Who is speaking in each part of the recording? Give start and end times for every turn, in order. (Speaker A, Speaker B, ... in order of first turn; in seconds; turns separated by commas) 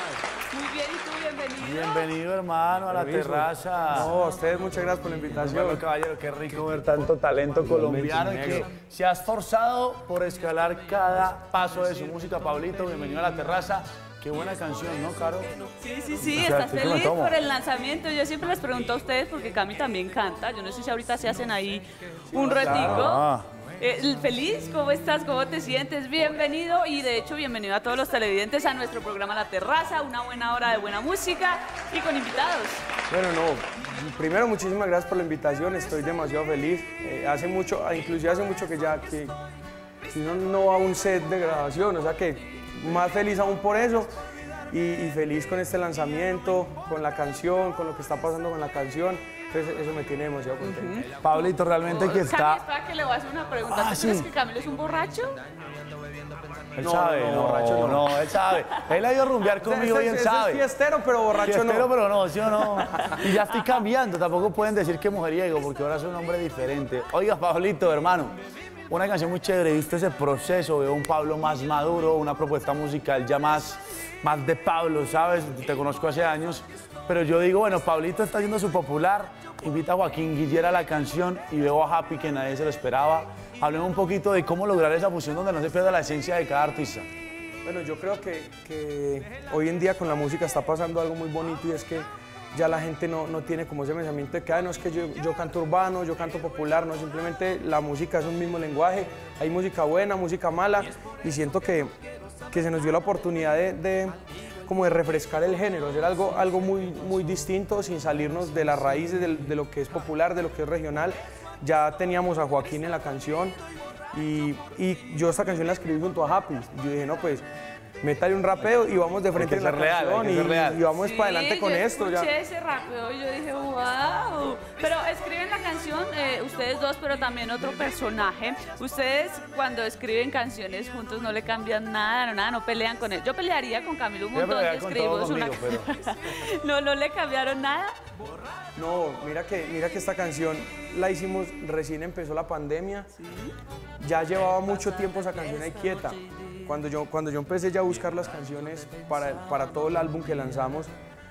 Speaker A: 0.5-2.1, Speaker B: 1.6-4.2, Speaker C: 2.9-5.8, Speaker B: 5.3-15.5, Speaker C: 7.6-8.7, Speaker A: 15.8-23.2, Speaker B: 16.2-17.4, Speaker C: 22.3-23.1, Speaker B: 22.5-23.5, Speaker A: 23.8-32.8, Speaker C: 33.1-39.3, Speaker C: 40.1-44.1, Speaker C: 44.7-50.9, Speaker A: 50.6-55.4, Speaker B: 51.2-52.6, Speaker B: 53.7-54.3, Speaker B: 56.8-60.7, Speaker C: 56.8-58.1, Speaker C: 59.6-61.9, Speaker B: 61.4-68.4, Speaker B: 68.9-87.1, Speaker C: 87.6-101.9, Speaker C: 102.5-113.5, Speaker C: 114.1-117.4, Speaker C: 118.0-122.3, Speaker B: 119.3-120.8, Speaker A: 121.0-137.9, Speaker B: 134.3-135.9, Speaker C: 138.7-143.1, Speaker A: 143.2-143.5, Speaker C: 144.0-150.9, Speaker A: 146.2-146.7